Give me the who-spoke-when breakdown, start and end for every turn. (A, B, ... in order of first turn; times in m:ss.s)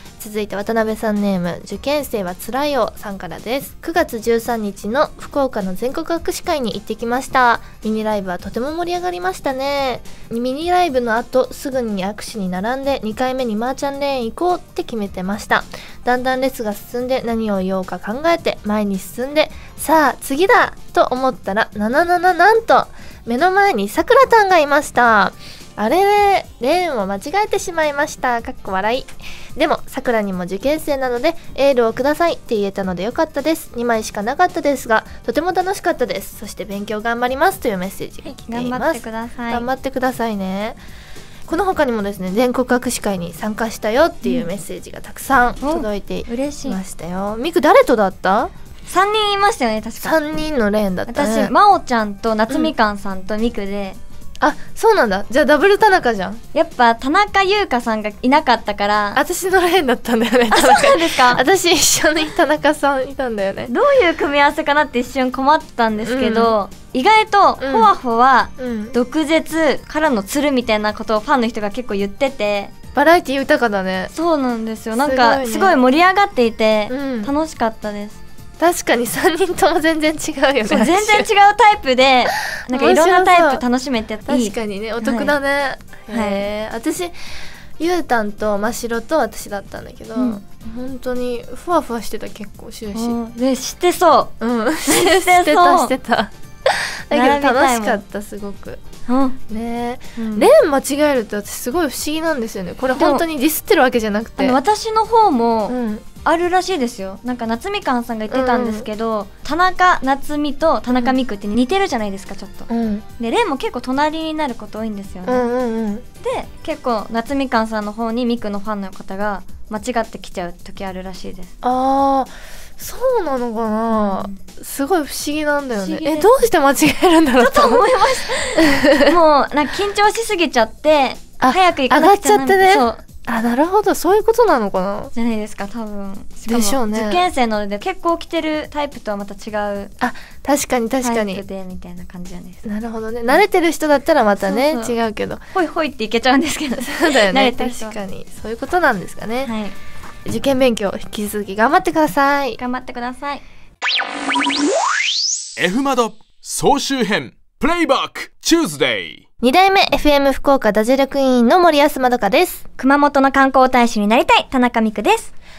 0:00.2-0:40.8 A
0:38.3-0:39.7 B
0:41.5-0:48.5 A
0:45.6-0:46.8 B
0:48.9-0:50.2 B
0:50.0-0:51.5 A
0:51.1-0:54.0 B
0:54.4-0:56.4 A
0:56.5-0:59.2 B
0:59.2-1:03.7 A
1:00.5-1:01.4 B
1:03.7-1:12.7 B
1:06.0-1:06.5 A
1:07.6-1:07.9 A
1:08.6-1:09.0 A
1:13.0-1:14.1 A
1:14.1-1:18.2 B
1:15.0-1:15.8 A
1:16.9-1:17.3 A
1:18.6-1:21.3 A
1:20.7-1:25.3 B
1:22.5-1:23.6 A
1:24.3-1:27.2 A
1:26.1-1:26.5 B
1:27.8-1:33.2 A
1:30.2-1:30.4 B
1:32.9-1:34.4 B
1:34.4-1:38.8 A
1:34.9-1:35.9 B
1:37.1-1:38.0 B
1:39.1-1:39.4 B
1:39.5-1:44.6 A
1:40.2-1:40.5 B
1:43.0-1:43.2 B
1:44.4-1:55.5 B
1:45.7-1:46.1 A
1:48.3-1:48.9 A
1:52.7-1:53.0 A
1:55.3-1:56.0 A
1:56.2-2:01.5 B
2:01.6-2:07.8 A
2:03.9-2:04.4 B
2:05.8-2:06.4 B
2:07.4-2:13.0 B
2:08.6-2:09.1 A
2:11.4-2:15.1 A
2:15.1-2:19.9 B
2:16.5-2:17.3 A
2:20.0-2:21.4 A
2:21.0-2:22.6 B
2:22.6-2:25.4 A
2:24.4-2:24.9 B
2:25.5-2:28.0 B
2:26.8-2:29.5 A
2:29.4-2:29.8 B
2:30.2-2:32.6 A
2:32.6-2:33.4 B
2:35.6-2:39.2 C
2:39.4-2:42.6 A
2:42.8-2:45.3 B